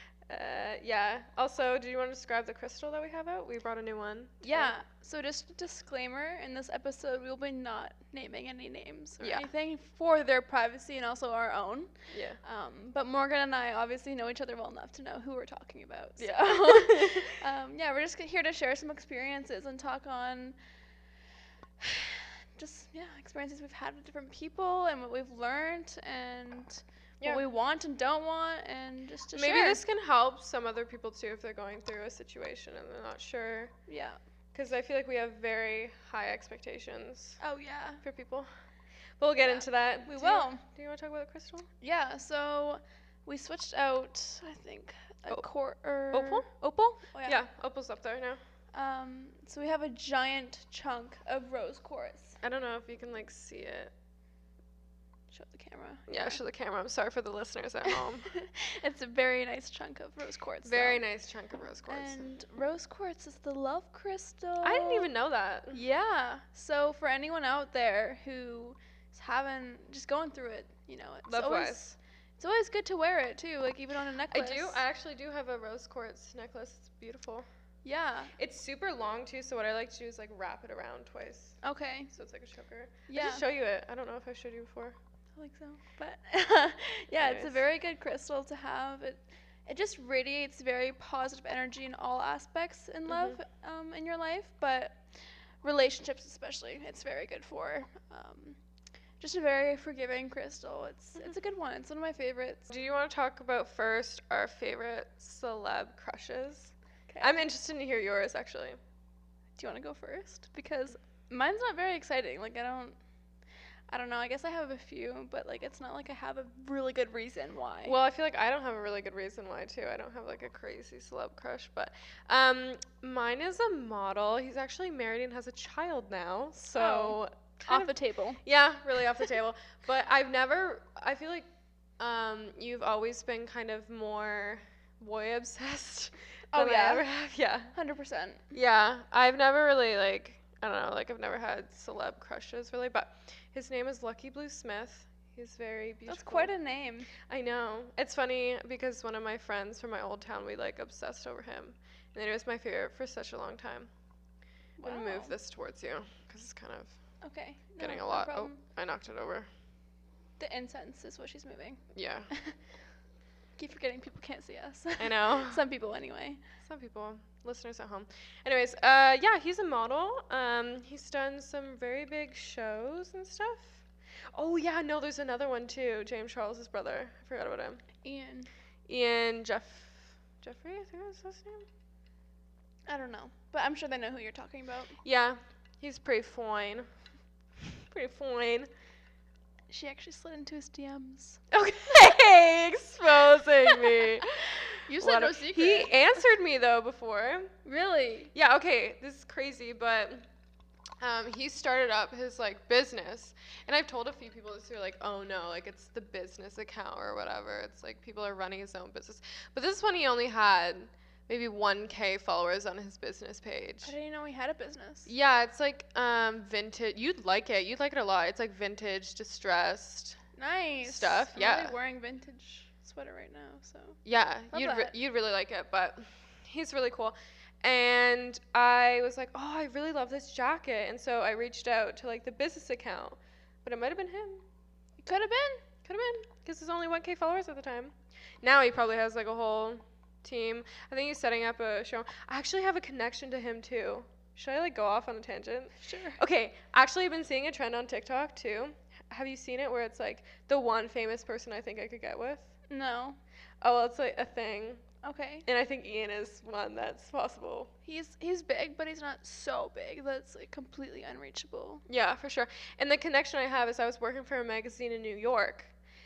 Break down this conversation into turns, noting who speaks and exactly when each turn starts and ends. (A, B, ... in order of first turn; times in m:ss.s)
0:00.3-0:04.7 A
0:04.4-0:20.6 B
0:09.2-0:09.4 A
0:12.1-0:12.4 A
0:16.2-0:17.4 A
0:21.8-0:29.8 B
0:29.3-0:33.7 A
0:33.9-0:34.2 B
0:34.5-0:37.4 A
0:37.4-0:38.0 B
0:38.0-0:38.5 A
0:39.2-0:41.7 A
0:39.4-0:40.6 B
0:41.8-0:47.4 B
0:46.1-0:46.5 A
0:47.2-0:48.4 A
0:48.7-0:52.4 B
0:52.4-0:53.9 A
0:55.3-0:56.4 B
0:56.1-0:58.3 A
0:57.8-1:01.0 B
1:00.6-1:02.2 A
1:01.9-1:05.1 B
1:04.6-1:05.8 A
1:05.7-1:11.9 B
1:11.3-1:12.0 A
1:12.4-1:14.8 B
1:14.3-1:17.5 A
1:17.8-1:18.3 B
1:18.4-1:21.6 A
1:21.6-1:22.1 B
1:22.1-1:24.9 A
1:23.1-1:23.4 B
1:25.4-1:38.6 B
1:27.2-1:27.6 A
1:33.1-1:33.4 A
1:39.2-1:42.6 B
1:42.7-1:48.8 A
1:47.1-1:47.4 B
1:49.6-1:53.0 B
1:53.9-1:58.0 B
1:57.8-2:11.4 A
2:06.7-2:08.4 B
2:12.0-2:17.7 A
2:16.5-2:17.0 B
2:17.7-2:18.5 B
2:18.5-2:26.5 A
2:26.1-2:27.1 B
2:27.3-2:33.9 A
2:34.8-2:35.3 B
2:34.8-2:37.0 A
2:37.2-2:38.6 B
2:37.8-2:39.5 A
2:40.4-2:42.6 B
2:41.9-2:42.3 A
2:43.6-2:46.4 B
2:45.0-2:45.6 A
2:46.6-2:57.8 A
2:58.0-2:58.5 B
2:58.9-3:01.6 A
3:02.9-3:05.0 B
3:05.0-3:06.9 A
3:07.8-3:08.7 A
3:09.7-3:11.4 B
3:11.5-3:17.5 A
3:13.6-3:14.2 B
3:14.8-3:15.9 B
3:17.6-3:18.3 B
3:18.3-3:20.2 A
3:21.0-3:33.9 A
3:33.8-3:35.1 B
3:35.0-3:40.2 A
3:40.4-3:44.0 B
3:40.8-3:41.7 A
3:44.0-3:54.4 A
3:44.5-3:44.9 B
3:55.0-3:55.6 B
3:55.8-4:12.5 A
4:05.8-4:06.2 B
4:12.7-4:13.2 B
4:13.6-4:14.8 A
4:15.0-4:15.4 B
4:15.4-4:17.7 A
4:17.8-4:21.8 B
4:21.9-4:25.7 A